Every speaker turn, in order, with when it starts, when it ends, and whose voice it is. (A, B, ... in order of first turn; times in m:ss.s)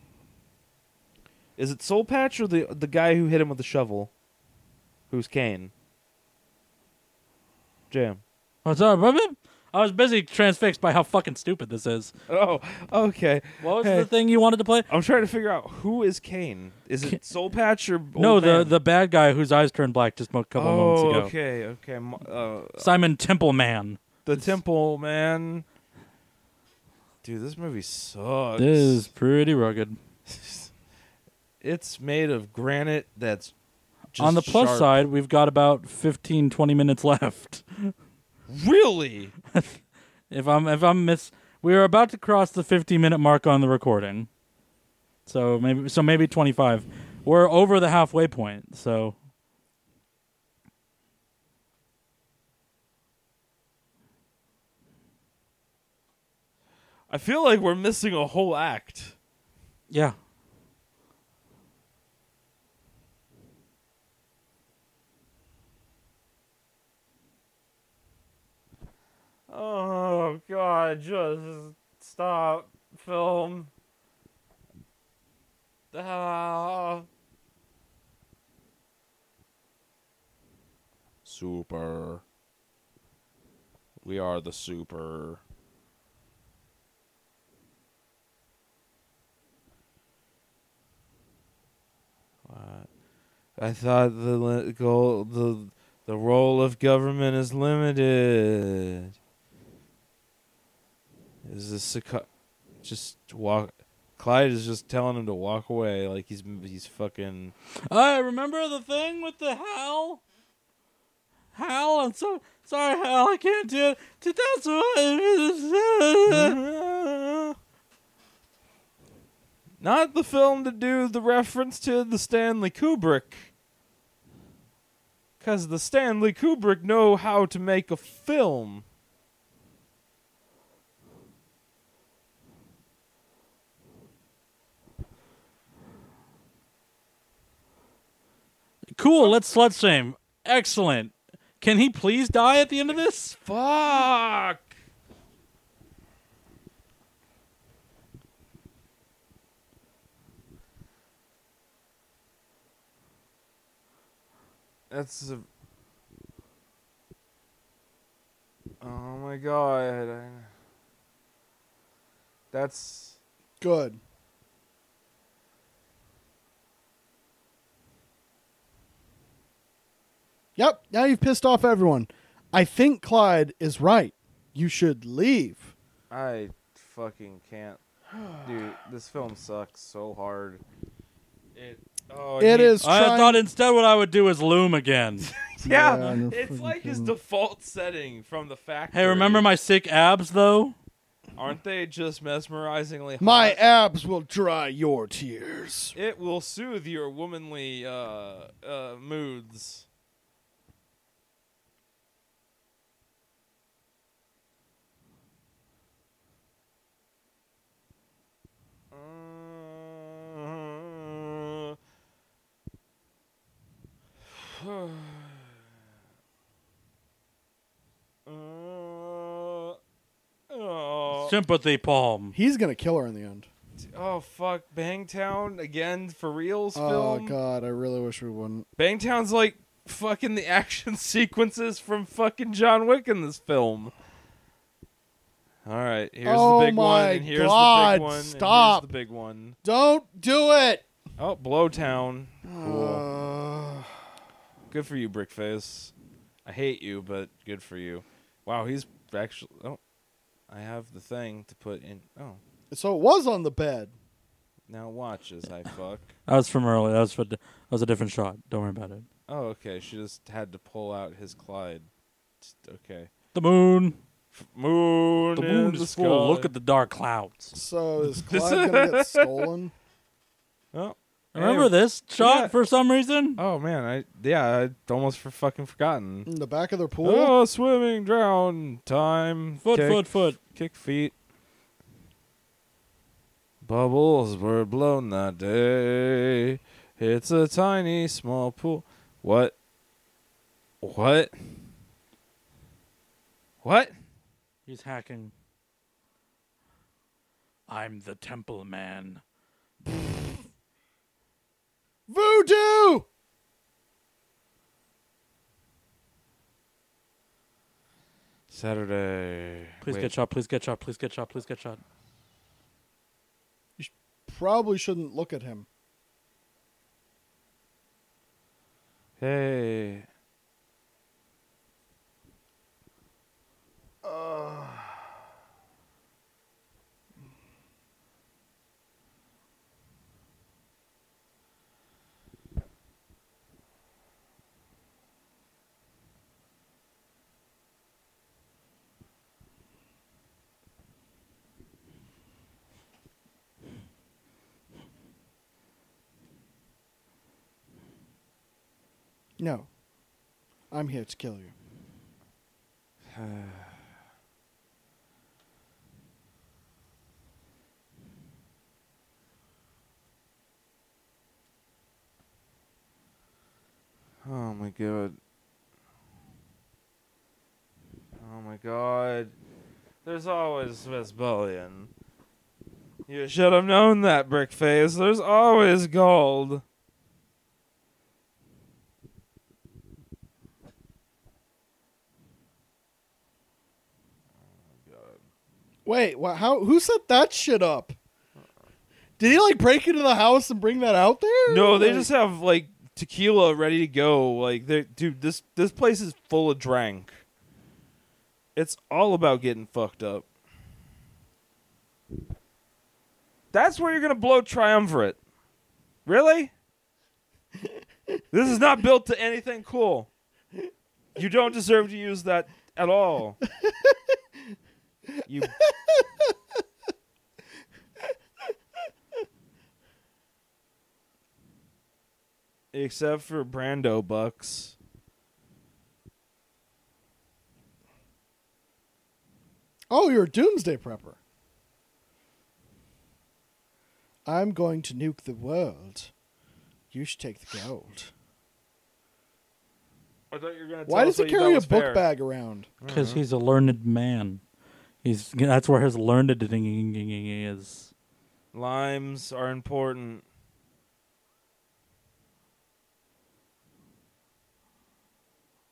0:01.6-0:04.1 A
0:05.1-0:05.7 A
0:07.9-0:08.2 A
0:08.6-0:12.1 B
0:12.3-0:14.1 A
0:13.6-0:14.9 B
0:14.9-0:18.7 A
0:18.2-0:21.3 B
0:20.6-0:22.9 A
0:22.8-0:24.6 B
0:24.2-0:25.6 A
0:27.2-0:29.1 A
0:28.6-0:30.0 B
0:30.3-0:30.7 A
0:31.6-0:33.5 A
0:34.1-0:35.0 A
0:34.2-0:37.9 B
0:38.5-0:39.3 A
0:39.5-0:44.3 B
0:45.2-0:49.2 B
0:57.1-0:59.1 A
0:59.9-1:00.2 B
1:09.5-1:13.7 A
1:15.9-1:17.1 A
1:21.2-1:22.2 A
1:24.0-1:25.4 A
1:32.4-1:32.9 A
1:33.6-1:39.1 A
1:41.4-1:42.3 A
1:42.8-1:47.5 A
1:47.9-1:50.2 B
1:51.5-1:56.6 B
1:56.3-1:57.6 A
1:59.8-2:03.5 A
2:05.4-2:08.8 A
2:18.9-2:23.4 B
2:23.4-2:24.7 A
2:34.9-2:35.4 A
2:38.8-2:40.5 A
2:42.5-2:43.2 A
2:43.6-2:44.0 C
2:50.6-2:55.7 C
2:56.1-3:00.6 A
3:01.5-3:02.8 A
3:02.4-3:03.4 C
3:02.8-3:05.3 B
3:05.2-3:09.4 A
3:05.6-3:07.1 C
3:08.9-3:10.8 B
3:11.4-3:13.6 A
3:13.2-3:15.9 C
3:15.9-3:19.9 A
3:28.9-3:31.8 A
3:34.3-3:35.5 A
3:38.2-3:39.8 A
3:40.5-3:41.3 A
3:41.2-3:42.4 B
3:42.3-3:43.5 C
3:43.8-3:47.4 A
3:46.7-3:48.6 C
3:48.8-3:53.9 A
3:55.6-3:59.6 A
3:56.2-3:58.8 C
3:59.6-4:00.8 C
4:01.2-4:03.0 A
4:02.4-4:04.0 C
4:04.7-4:05.9 A
4:06.4-4:09.8 A
4:10.5-4:12.4 A
4:12.7-4:13.9 C
4:14.7-4:16.1 A
4:16.3-4:19.0 B
4:19.3-4:21.9 A
4:22.4-4:23.1 A
4:23.3-4:24.0 B
4:24.3-4:26.5 A
4:25.3-4:27.5 B
4:27.5-4:29.7 C
4:28.2-4:29.5 A
4:30.7-4:32.5 A
4:31.3-4:33.4 B
4:33.4-4:36.3 A
4:36.2-4:37.3 C
4:37.0-4:41.1 A
4:39.6-4:40.4 B
4:43.6-4:49.5 A
4:50.8-4:51.3 A
4:53.6-4:53.9 A
4:54.7-4:55.3 B
4:57.7-4:59.2 B
5:02.1-5:03.1 C
5:08.5-5:10.1 A
5:09.8-5:11.8 B
5:13.8-5:15.7 C
5:19.2-5:20.1 A
5:24.0-5:25.0 C
5:49.4-5:49.7 C
5:50.7-5:51.5 C
5:53.1-5:53.8 A
6:04.2-6:05.2 A
6:08.2-6:09.3 A
6:10.0-6:11.9 A
6:13.1-6:16.6 A
6:24.5-6:25.2 A
6:25.8-6:28.0 C
6:29.2-6:32.1 C
6:31.5-6:37.2 A
6:38.6-6:40.2 A
6:43.5-6:45.2 A
6:46.0-6:46.5 A
6:48.3-6:50.1 A
6:51.2-6:53.4 A
6:53.6-6:54.1 C
6:55.2-6:55.6 A
6:55.4-6:56.3 C
7:02.7-7:04.8 A
7:09.9-7:11.2 C
7:14.2-7:16.1 C
7:16.9-7:18.1 C
7:20.3-7:22.0 A
7:20.9-7:22.7 C
7:22.8-7:23.2 A
7:22.8-7:24.4 B
7:25.0-7:27.9 B
7:28.5-7:30.2 A